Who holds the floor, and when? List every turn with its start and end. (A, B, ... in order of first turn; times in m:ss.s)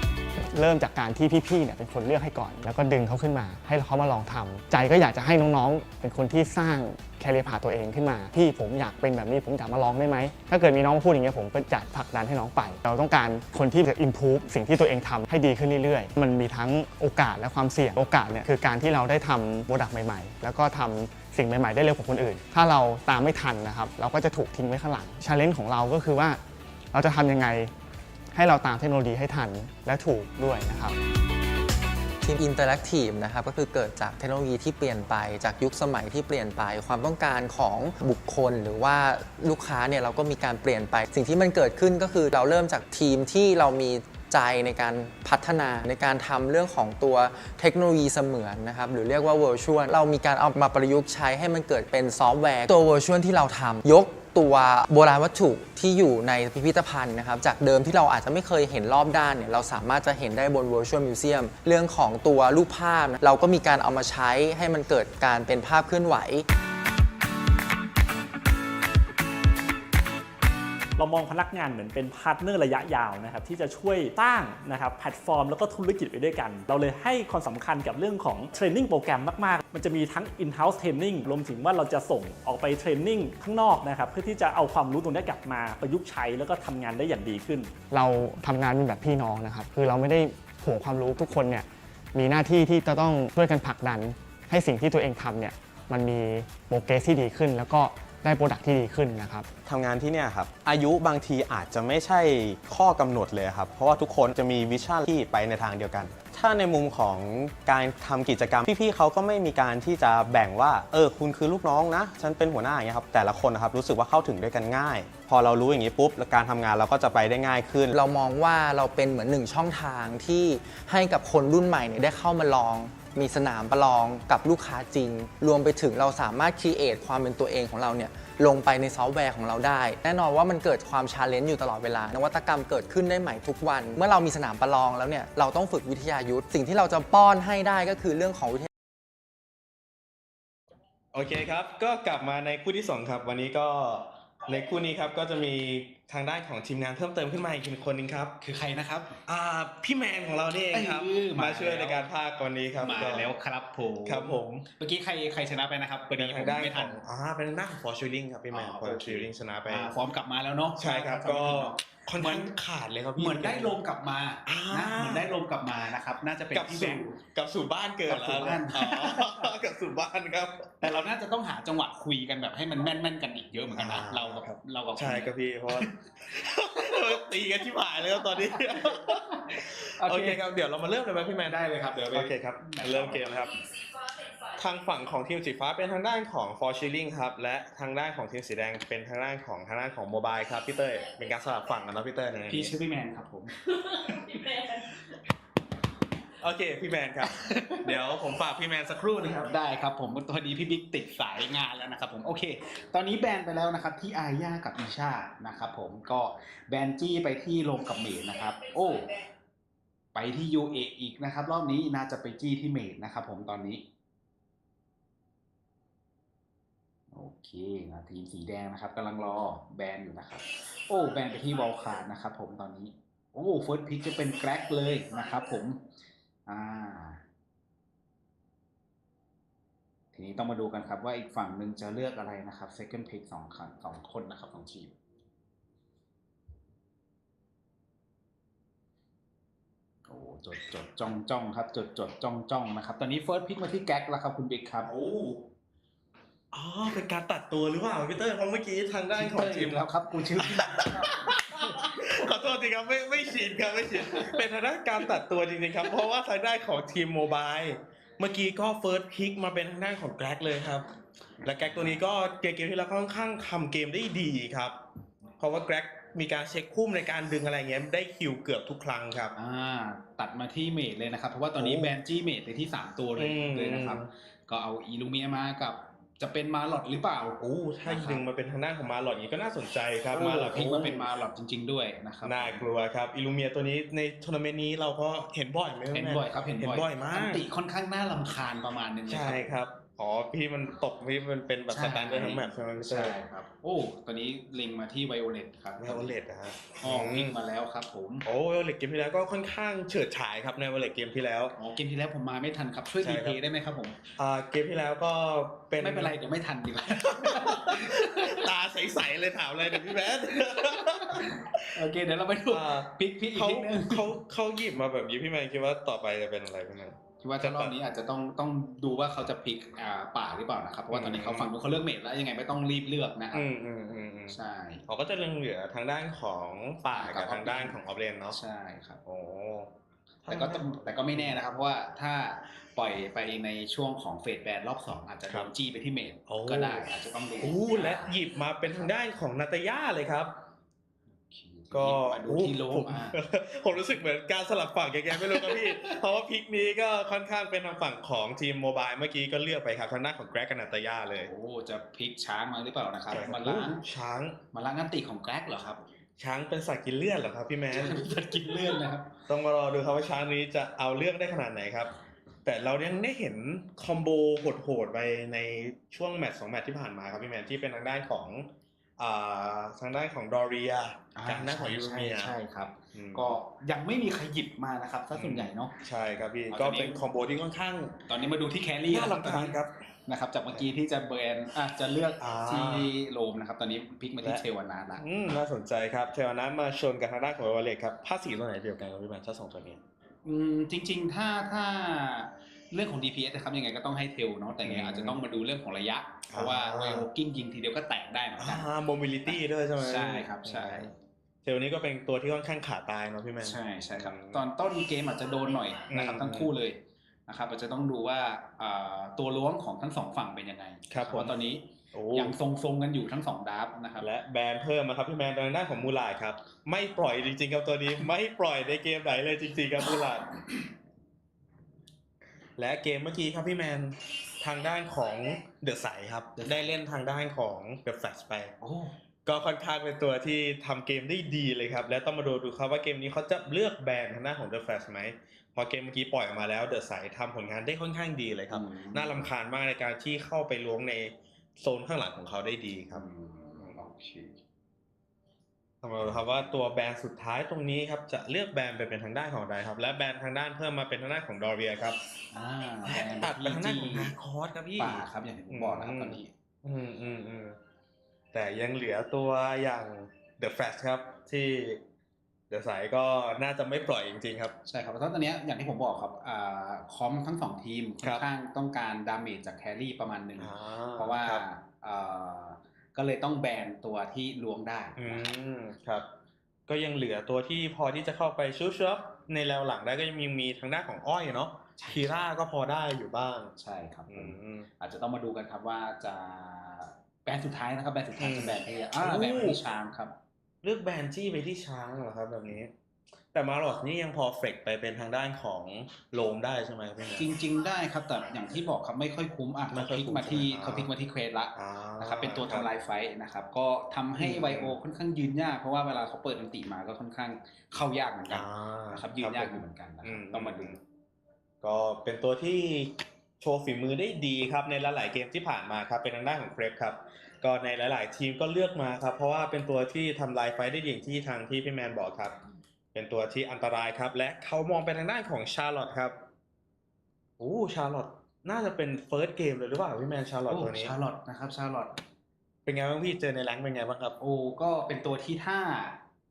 0:00.4-0:26.4 A
0:26.9-0:27.7 A
0:28.3-0:31.0 A
0:32.2-1:06.5 B
1:11.0-1:27.8 C
1:27.9-1:39.5 A
1:39.6-1:57.9 D
1:57.9-2:18.7 B
2:21.1-2:28.4 E
2:28.4-2:29.2 F
2:29.3-2:33.3 E
2:30.7-2:32.1 F
2:32.8-2:37.0 F
2:34.1-2:34.6 E
2:36.2-2:39.9 E
2:38.5-2:42.5 F
2:40.8-2:43.8 E
2:43.2-2:47.2 F
2:44.5-2:45.3 E
2:46.5-2:51.0 E
2:48.1-2:49.5 F
2:50.8-2:56.0 F
2:53.7-2:59.2 E
2:56.8-2:57.2 F
2:58.1-3:00.4 F
3:00.0-3:01.6 E
3:01.4-3:03.4 F
3:02.1-3:03.5 E
3:04.5-3:12.7 E
3:12.5-3:13.6 F
3:14.0-3:14.6 E
3:16.4-3:19.5 E
3:17.2-3:17.9 F
3:19.4-3:29.1 F
3:30.1-3:33.8 F
3:37.1-3:45.8 F
3:46.5-3:47.2 F
3:50.1-3:55.0 F
4:00.1-4:04.9 F
4:04.8-4:05.4 E
4:06.5-4:09.9 E
4:09.2-4:12.3 F
4:10.4-4:20.9 E
4:13.9-4:14.4 F
4:21.4-4:24.8 E
4:21.5-4:22.0 F
4:25.4-4:29.4 E
4:29.4-4:38.2 F
4:31.6-4:31.9 E
4:33.2-4:34.1 E
4:37.4-4:41.1 E
4:40.1-4:42.6 F
4:42.2-4:47.4 E
4:45.9-4:49.6 F
4:49.1-4:53.2 E
4:51.7-4:56.2 F
4:55.8-4:57.4 E
4:56.8-4:58.3 F
4:58.2-5:01.5 E
5:01.6-5:04.0 F
5:03.0-5:03.4 E
5:04.2-5:06.2 E
5:05.8-5:08.5 F
5:06.9-5:11.7 E
5:09.8-5:14.2 F
5:12.5-5:17.7 E
5:17.2-5:23.5 F
5:20.9-5:21.5 E
5:23.3-5:24.4 E
5:24.3-5:24.8 F
5:24.9-5:28.4 E
5:26.9-5:27.8 F
5:28.3-5:29.0 F
5:29.1-5:29.7 E
5:30.3-5:31.4 E
5:30.3-5:38.2 F
5:36.3-5:36.9 E
5:37.4-5:40.3 E
5:41.3-5:43.2 F
5:41.7-5:51.3 E
5:45.1-5:46.0 F
5:51.2-5:53.8 F
5:53.1-5:54.4 E
5:54.5-5:55.8 F
5:56.2-5:58.2 E
5:57.7-5:59.1 F
5:59.3-6:01.9 E
6:02.4-6:08.5 E
6:09.0-6:12.3 E
6:11.2-6:15.7 F
6:12.9-6:13.4 E
6:15.2-6:18.0 E
6:16.5-6:17.0 F
6:18.1-6:19.6 F
6:18.9-6:19.8 E
6:20.1-6:25.0 F
6:22.2-6:22.9 E
6:25.0-6:29.8 E
6:30.2-6:38.7 F
6:34.6-6:35.2 E
6:36.3-6:37.1 E
6:38.4-6:40.9 E
6:39.3-6:40.9 F
6:41.4-6:44.4 E
6:43.4-6:54.1 F
6:45.9-6:46.5 E
6:50.9-6:51.3 E
6:51.9-6:52.4 E
6:54.0-7:00.3 E
7:02.6-7:08.5 E
7:06.4-7:06.7 F
7:08.6-7:08.9 F
7:09.3-7:23.0 E
7:18.5-7:19.3 F
7:22.9-7:24.4 F
7:25.8-7:32.0 E
7:32.3-7:34.1 F
7:32.9-7:37.6 E
7:34.8-7:36.3 F
7:38.3-7:41.8 E
7:42.5-7:44.6 E
7:44.7-7:55.3 F
7:50.4-7:51.4 E
7:55.0-7:56.0 E
7:56.7-8:03.5 E
8:01.8-8:02.1 F
8:03.6-8:10.2 F
8:04.1-8:04.7 E
8:08.2-8:09.6 E
8:10.6-8:12.7 E
8:13.3-8:17.3 E
8:17.2-8:30.8 F
8:19.7-8:20.9 E
8:21.6-8:22.7 E
8:24.2-8:24.8 E
8:28.3-8:30.8 E
8:31.6-8:42.4 E
8:42.9-8:46.2 E
8:47.4-8:50.9 E
8:50.5-8:52.0 F
8:52.7-8:54.2 E
8:54.2-8:56.0 F